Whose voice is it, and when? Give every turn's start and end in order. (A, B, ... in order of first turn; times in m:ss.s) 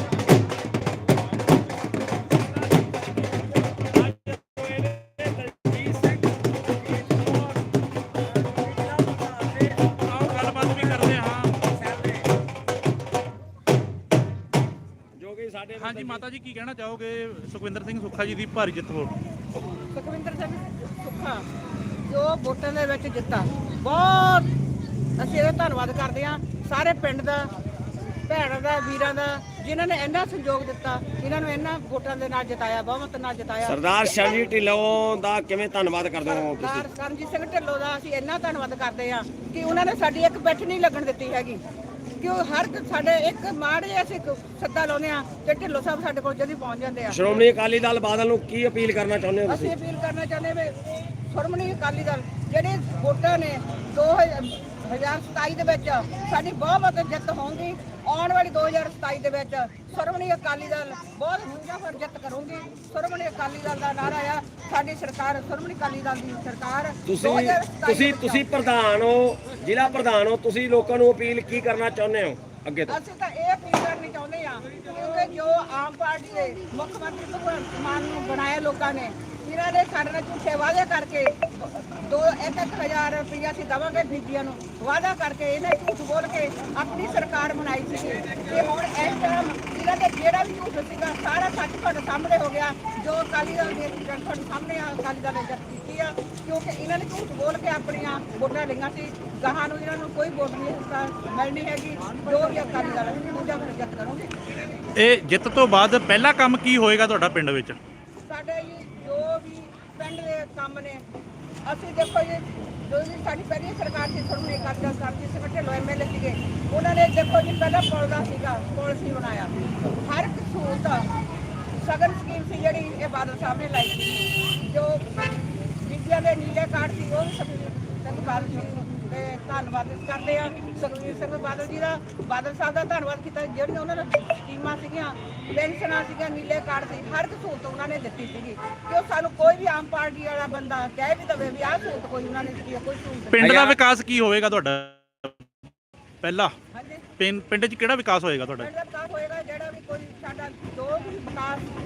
0:03.6-0:12.3 A
0:10.0-0:11.6 B
0:15.2-0:16.2 A
0:15.8-0:19.1 B
0:19.7-0:21.5 C
0:22.0-0:24.5 C
0:25.2-0:27.5 C
0:28.2-0:33.8 C
0:33.6-0:36.9 A
0:36.2-0:41.6 C
0:42.2-0:47.2 C
0:47.1-0:49.7 A
0:49.5-1:08.5 C
1:07.0-1:13.0 A
1:12.9-1:44.3 C
1:44.9-1:47.8 B
1:48.2-1:51.0 C
1:51.6-2:01.1 C
2:01.8-2:05.2 C
2:05.8-2:23.5 C
2:23.3-2:25.4 B
2:23.4-2:23.8 A
2:26.2-2:26.5 B
2:26.7-2:27.1 C
2:27.2-2:28.7 B
2:28.6-2:31.7 C